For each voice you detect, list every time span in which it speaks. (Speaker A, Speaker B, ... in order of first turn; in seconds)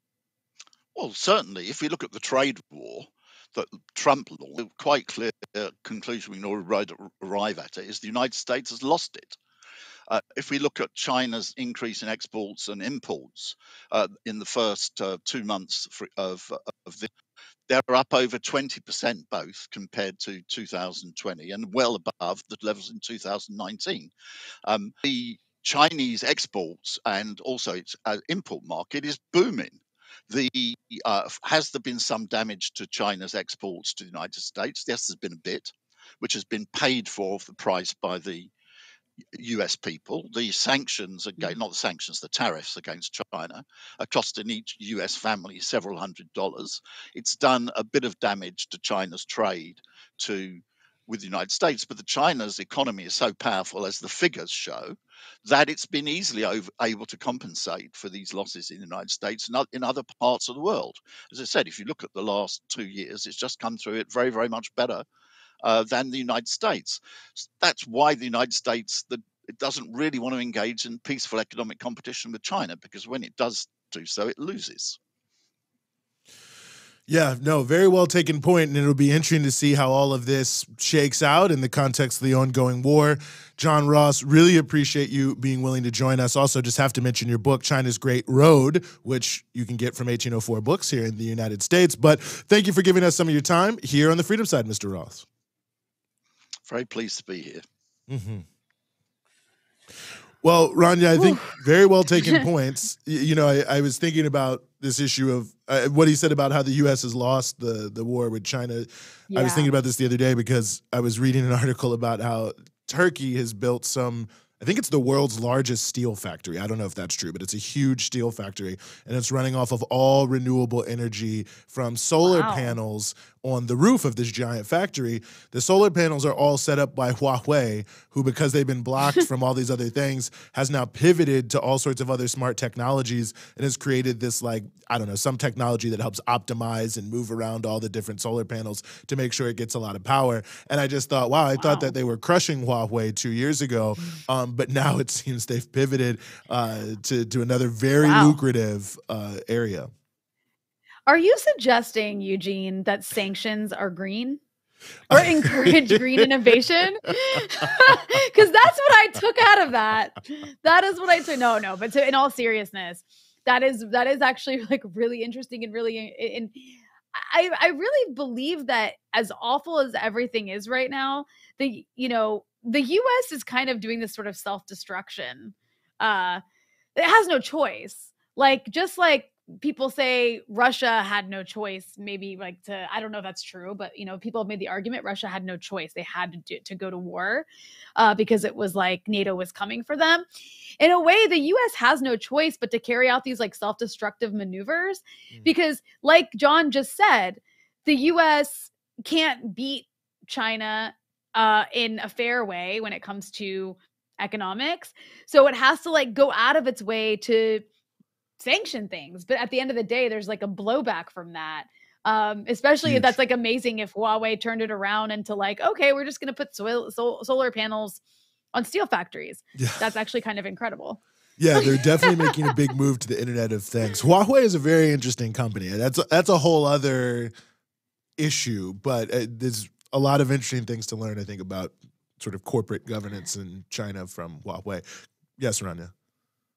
Speaker A: 0.9-9.4, 10.1-17.1, 17.7-24.1, 24.6-38.5, 39.4-65.1, 65.6-75.0, 96.7-97.7
Speaker B: 77.1-95.3, 98.1-98.5, 100.4-149.9, 155.1-156.5, 212.8-213.2, 219.6-219.8, 221.4-227.3, 228.2-234.8, 235.4-235.9
Speaker C: 101.2-101.5, 109.3-109.7, 122.2-122.8, 141.6-142.0, 148.0-148.4, 151.1-154.4, 155.1-176.4, 177.0-190.3, 190.8-207.6, 208.4-218.0, 218.5-221.0, 221.6-222.4